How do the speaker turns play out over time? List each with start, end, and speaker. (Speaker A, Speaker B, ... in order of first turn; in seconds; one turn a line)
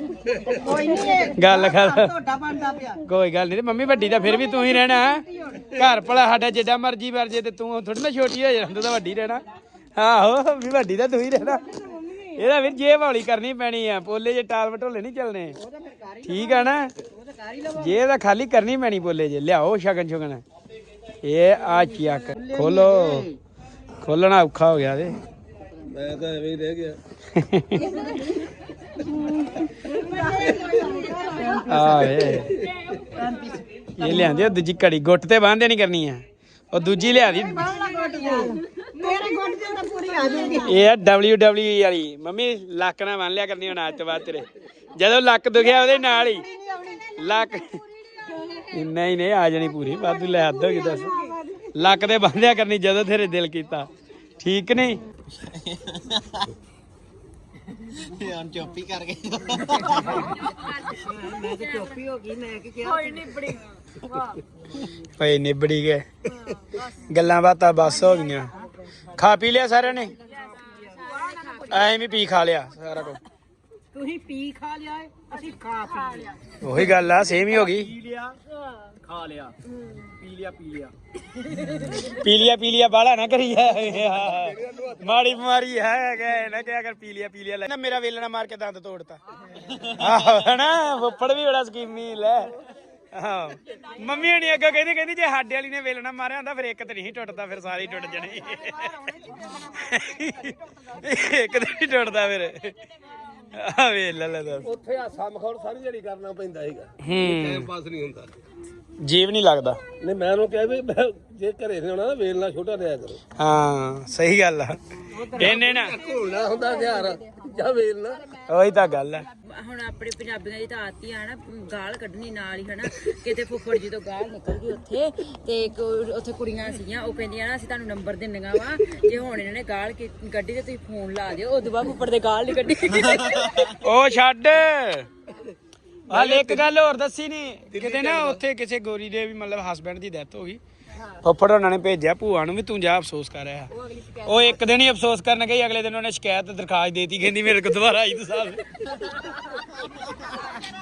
Speaker A: 0.4-3.0
Speaker B: 1.3-2.1
Speaker B: 3.0-9.4
Speaker A: 4.2-5.8
Speaker B: 9.9-11.6
Speaker A: 11.4-12.4
Speaker B: 12.3-15.6
Speaker A: 15.6-18.0
Speaker B: 16.2-16.9
Speaker B: 17.7-20.4
Speaker B: 21.2-23.3
Speaker A: 22.3-23.3
Speaker B: 24.0-25.1
Speaker C: 25.9-27.0
Speaker B: 27.3-27.8
Speaker A: 27.8-28.4
Speaker A: 29.1-32.4
Speaker D: 30.8-31.6
Speaker B: 31.6-32.5
Speaker A: 33.1-34.4
Speaker B: 34.0-37.7
Speaker A: 37.1-40.8
Speaker B: 40.6-46.5
Speaker A: 45.5-48.9
Speaker B: 47.2-47.8
Speaker B: 48.7-51.1
Speaker A: 49.9-51.7
Speaker B: 51.7-53.9
Speaker B: 54.4-55.0
Speaker A: 57.9-60.3
Speaker D: 60.0-61.7
Speaker A: 61.0-63.5
Speaker B: 65.2-66.0
Speaker A: 66.5-66.8
Speaker B: 67.1-68.5
Speaker B: 69.1-70.1
Speaker A: 70.4-71.9
Speaker D: 70.7-71.8
Speaker B: 71.7-73.2
Speaker A: 73.9-76.5
Speaker B: 76.6-77.9
Speaker E: 77.2-78.3
Speaker E: 79.0-79.5
Speaker E: 80.2-80.9
Speaker B: 82.0-89.2
Speaker C: 84.3-85.1
Speaker B: 90.0-92.5
Speaker B: 93.1-102.7
Speaker B: 103.5-104.7
Speaker C: 104.6-108.3
Speaker B: 107.0-107.7
Speaker B: 109.0-109.8
Speaker C: 110.0-113.2
Speaker B: 113.4-116.0
Speaker C: 115.1-118.3
Speaker B: 118.5-119.3
Speaker D: 119.4-133.8
Speaker B: 133.8-135.1
Speaker B: 136.1-140.6
Speaker C: 136.1-136.6
Speaker C: 137.7-138.4
Speaker B: 141.2-149.0